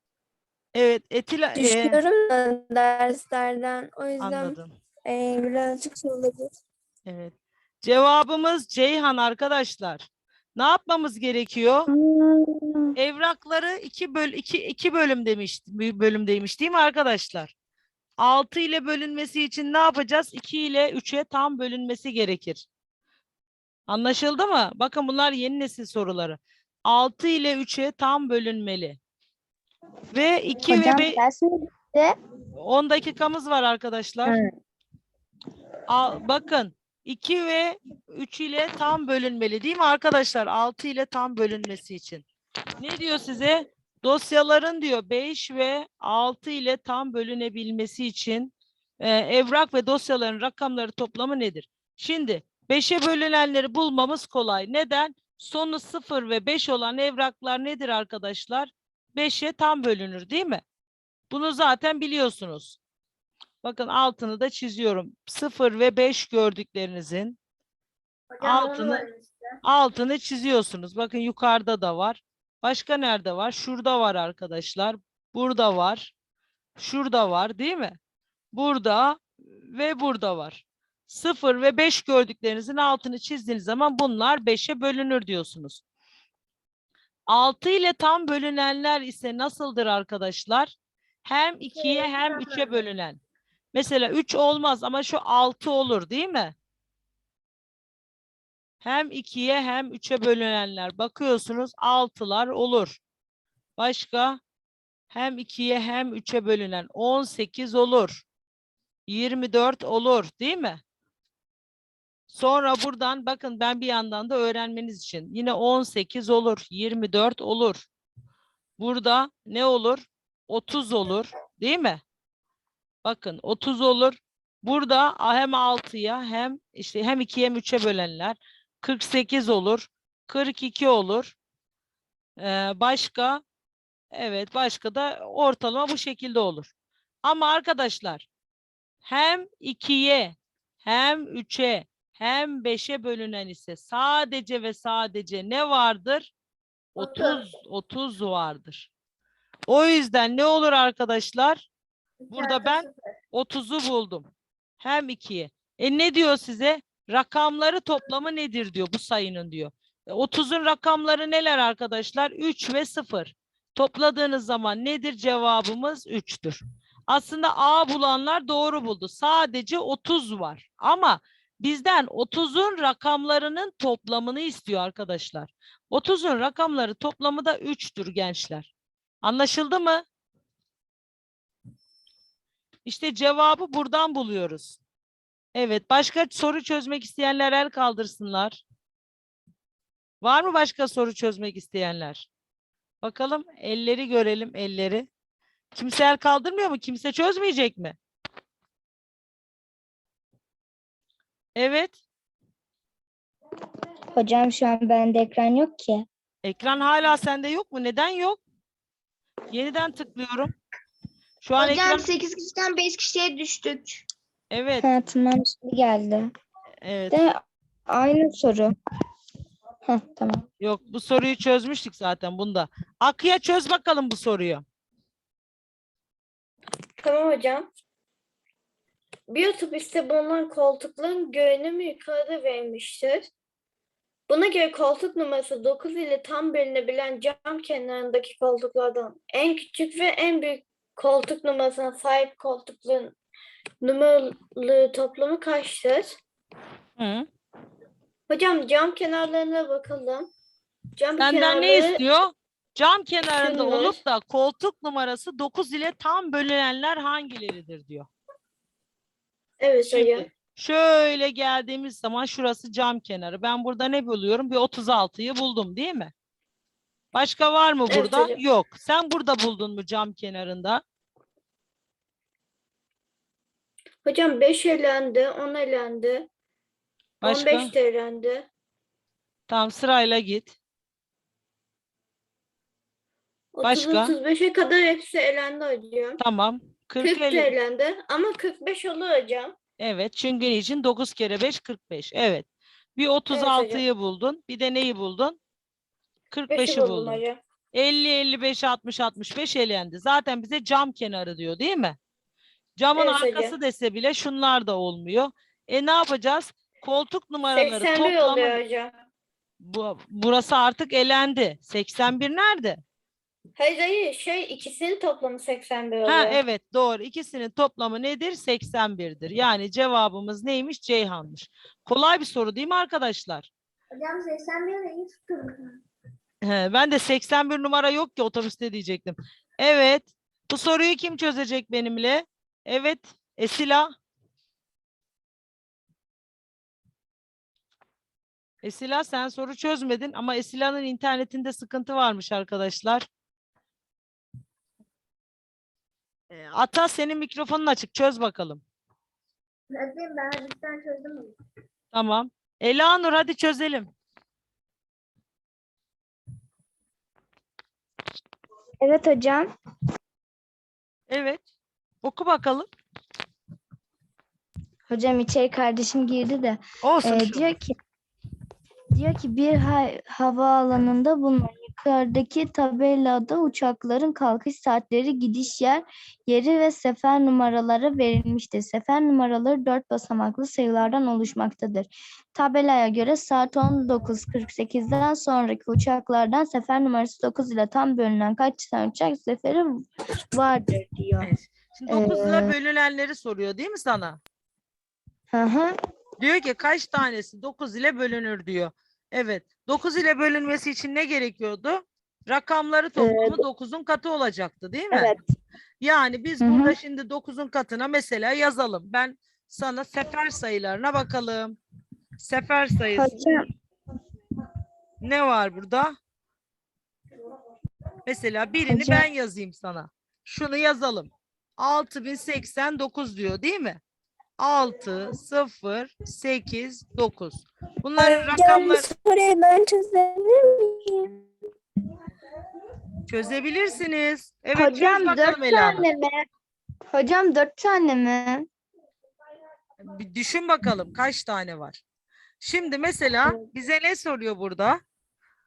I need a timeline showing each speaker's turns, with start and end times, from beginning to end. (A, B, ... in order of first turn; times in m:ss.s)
0:00.7-0:02.0 A
0:01.6-0:04.5 B
0:04.2-0:04.7 A
0:05.0-0:06.5 B
0:07.0-0:11.9 A
0:11.9-0:12.9 B
0:13.0-0:17.5 A
0:18.2-0:22.6 A
0:23.9-0:29.0 A
0:30.1-0:31.2 A
0:30.6-0:32.2 C
0:32.6-0:34.4 A
0:34.2-0:34.5 C
0:35.9-0:42.2 A
0:42.8-1:00.6 A
1:01.3-1:02.8 A
1:03.6-1:07.4 A
1:08.3-1:09.6 D
1:08.4-1:09.0 A
1:09.6-1:16.1 A
1:16.8-1:18.0 A
1:18.5-1:25.8 A
1:27.3-1:30.7 A
1:31.2-1:33.2 A
1:31.7-1:32.8 D
1:33.7-1:36.5 A
1:38.8-1:43.0 A
1:43.8-1:44.4 A
1:45.1-1:48.2 A
1:49.1-1:50.8 A
1:52.3-1:57.9 A
1:58.8-2:02.0 A
2:03.0-2:11.4 A
2:12.4-2:13.4 A
2:14.1-2:16.7 A
2:17.2-2:18.3 A
2:19.0-2:26.3 A
2:27.0-2:28.9 A
2:27.0-2:27.4 D
2:29.7-2:31.7 A
2:32.2-2:33.2 D
2:32.3-2:34.3 A
2:34.8-2:58.7 A
2:59.2-3:00.0 A
3:02.8-3:04.8 A
3:05.5-3:08.6 A
3:10.2-3:12.3 A
3:13.0-3:15.1 A
3:15.7-3:18.0 A
3:21.6-3:22.0 A
3:24.1-3:26.0 C
3:26.4-3:28.4 A
3:29.5-3:30.5 A
3:31.4-3:32.1 A
3:31.7-3:33.8 B
3:32.3-3:33.8 C
3:34.5-3:34.9 A
3:34.8-3:36.3 C
3:36.8-3:37.2 A
3:37.1-3:38.7 C
3:39.8-3:40.4 C
3:40.6-3:44.6 A
3:47.0-3:47.7 E
3:49.3-3:53.3 E
3:54.3-4:03.1 E
4:03.8-4:06.2 E
4:07.0-4:07.3 A
4:08.3-4:10.3 E
4:11.0-4:12.0 E
4:11.2-4:18.1 A
4:13.4-4:14.0 E
4:19.6-4:20.3 E
4:19.9-4:26.1 A
4:27.1-4:30.8 A
4:27.9-4:28.4 E
4:34.0-4:36.3 E
4:37.2-4:37.7 A
4:37.2-4:38.5 E
4:39.5-4:40.6 A
4:43.5-4:46.2 E
4:43.6-4:44.1 A
4:46.2-4:47.5 A
4:47.0-4:49.5 E
4:49.8-4:55.4 A
4:53.3-4:53.8 E
4:56.3-4:57.2 A
4:56.5-4:57.4 E
4:57.7-5:02.0 A
5:02.8-5:08.6 A
5:03.0-5:03.6 E
5:07.6-5:08.9 E
5:09.6-5:12.8 A
5:13.6-5:16.4 E
5:16.0-5:23.5 A
5:23.9-5:25.8 D
5:26.4-5:33.9 A
5:38.6-5:43.1 A
5:46.3-5:48.6 A
5:49.7-5:51.4 D
5:51.9-5:53.9 A
5:58.8-5:59.5 C
6:01.1-6:01.4 A
6:02.0-6:02.7 A
6:04.9-6:07.7 C
6:06.8-6:07.5 A
6:08.9-6:31.3 C
6:31.2-6:34.2 A
6:31.9-6:32.5 C
6:35.3-6:35.7 C
6:36.2-6:45.2 A
6:43.0-6:43.4 C
6:44.9-6:45.2 C
6:45.8-6:51.6 A
6:46.4-6:46.8 C
6:52.2-6:53.4 A
6:52.9-6:53.4 C
6:55.0-6:56.0 A
6:58.0-7:03.8 A
6:58.7-6:59.0 C
7:04.4-7:08.9 A
7:08.3-7:11.0 B
7:13.1-7:15.8 A
7:14.5-7:16.2 C
7:16.9-7:18.5 C
7:19.8-7:21.8 A
7:22.4-7:24.8 A